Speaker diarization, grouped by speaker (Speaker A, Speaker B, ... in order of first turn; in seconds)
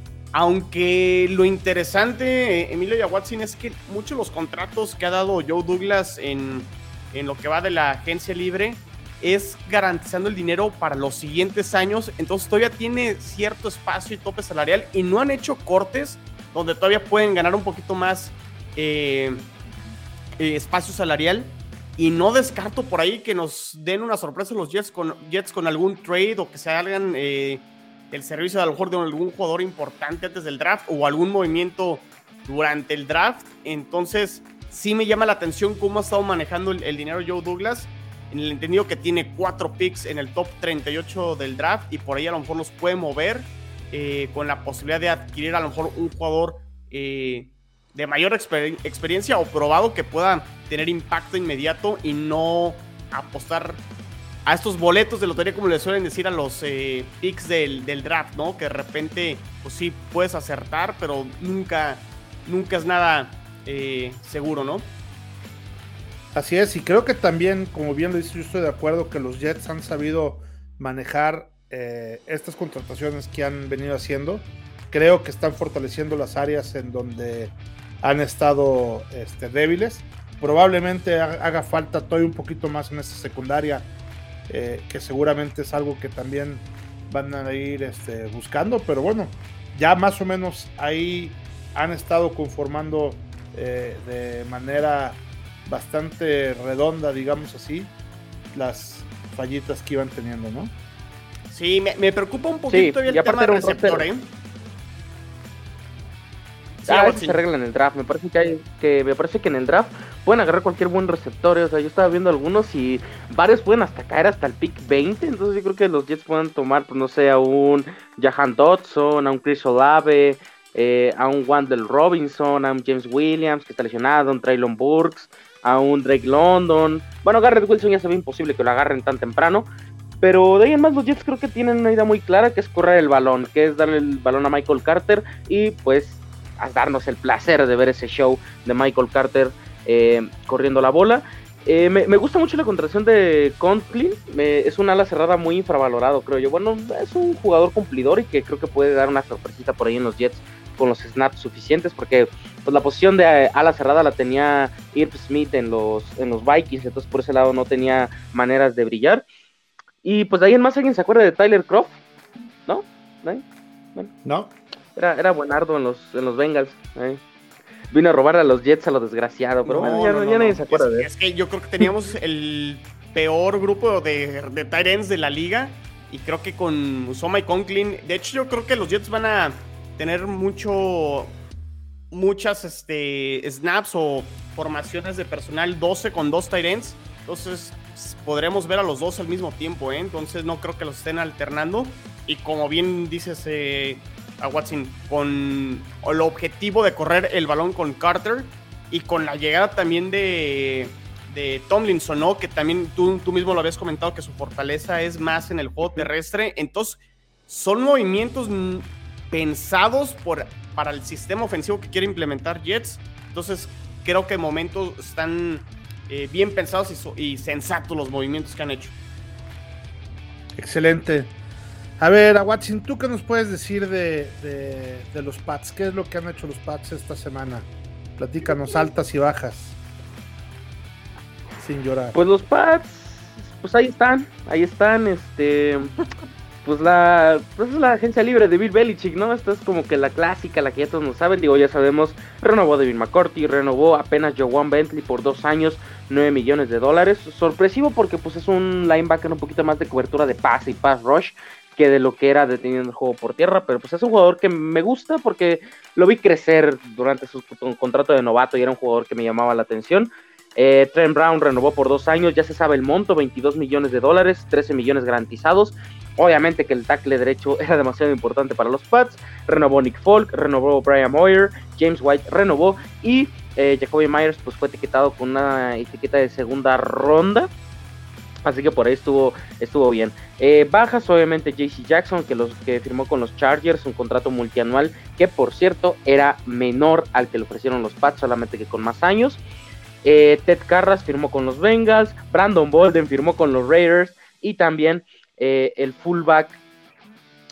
Speaker A: 0.3-19.5, 20.4-53.8, 54.5-64.9, 101.5-104.3, 106.8-107.4, 169.7-181.4, 182.1-218.9
Speaker B: 66.3-83.9, 84.5-97.9, 98.5-100.7, 164.2-164.5, 169.7-170.1, 220.6-221.3, 222.0-229.8, 231.6-232.2
Speaker C: 102.7-104.1, 106.9-129.7, 130.2-159.2, 160.0-162.0, 162.7-163.4, 164.9-167.2, 167.9-171.1, 232.1-235.9, 236.6-277.5, 278.4-289.4, 290.0-296.6